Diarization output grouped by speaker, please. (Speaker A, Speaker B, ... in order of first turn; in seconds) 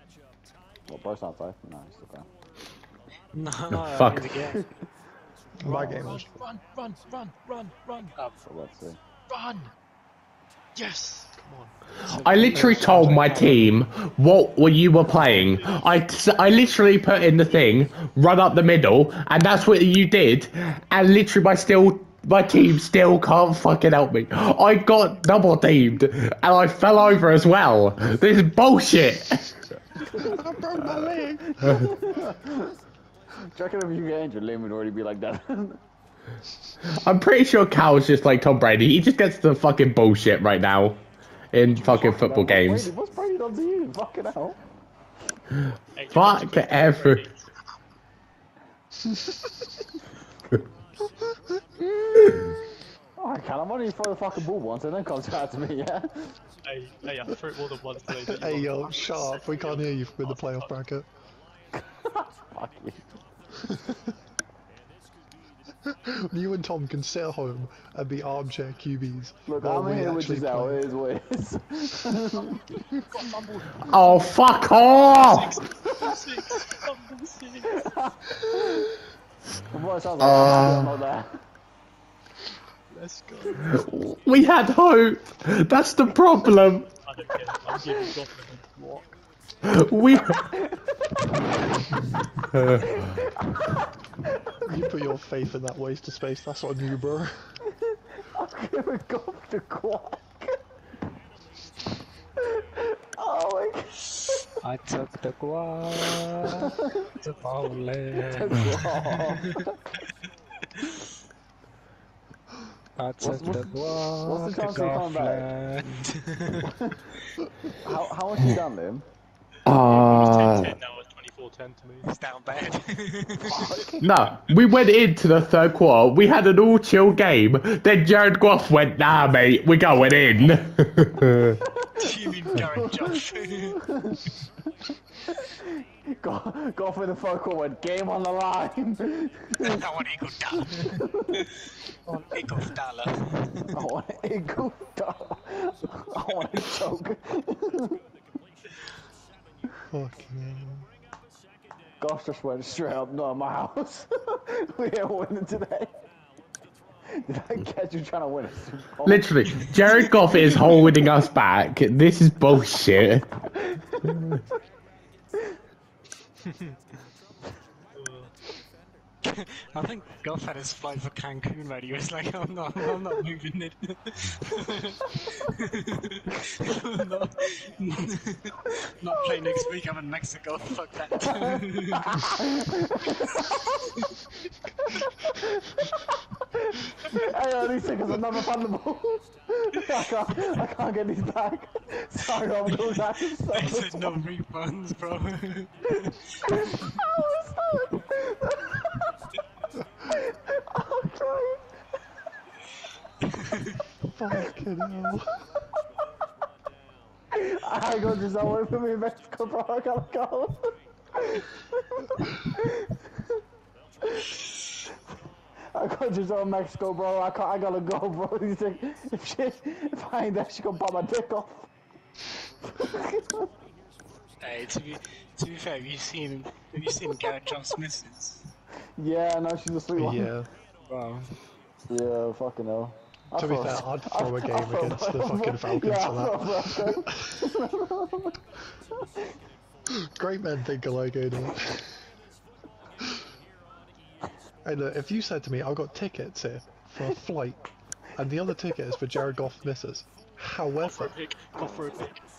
Speaker A: 0.9-2.3, 5.7-6.3, 8.4-9.0, 30.2-32.7, 33.5-35.8, 41.8-44.6, 53.2-56.3, 61.8-63.0, 69.5-72.6, 77.7-78.9, 79.7-81.3, 90.4-91.2, 92.7-93.8, 98.2-100.6, 102.6-104.1, 108.2-109.7, 113.2-115.5, 116.8-117.0, 117.7-119.0, 123.5-124.0, 132.0-133.2, 133.8-134.3, 135.1-139.8, 140.6-141.4, 143.7-148.0, 152.0-155.9, 157.2-160.9, 163.7-164.0, 181.2-183.8, 184.8-194.1, 196.4-199.0, 200.1-201.6, 207.3-213.0, 214.1-214.4, 215.7-221.7, 222.7-223.5, 228.9-230.3, 231.9-238.3
Speaker B: 3.3-4.6, 12.1-13.7, 104.6-109.6, 113.0-116.7, 122.0-123.9, 131.9-133.8, 139.6-141.4, 142.0-143.7, 169.2-182.1, 192.7-196.2, 203.3-203.7, 224.4-228.5, 230.8-231.3
Speaker C: 3.7-4.2, 12.0-29.6, 36.9-42.9, 46.1-47.2, 73.8-75.6, 80.2-80.9, 83.7-86.9, 89.6-90.4, 119.7-120.8, 124.0-131.6, 159.0-163.3
Speaker D: 5.6-6.3, 11.3-11.7, 30.2-32.3, 58.1-61.1, 66.1-70.8, 94.7-97.5, 149.9-150.9, 204.1-205.4, 229.9-230.5, 233.3-237.2, 240.0-241.9, 244.6-247.6, 248.2-251.2
Speaker E: 5.7-8.1, 9.3-9.7, 10.8-11.3, 15.2-15.8, 46.0-47.5, 56.6-60.7, 73.1-77.9, 82.9-83.8, 87.0-89.2, 119.7-122.1, 167.9-168.3, 250.8-252.2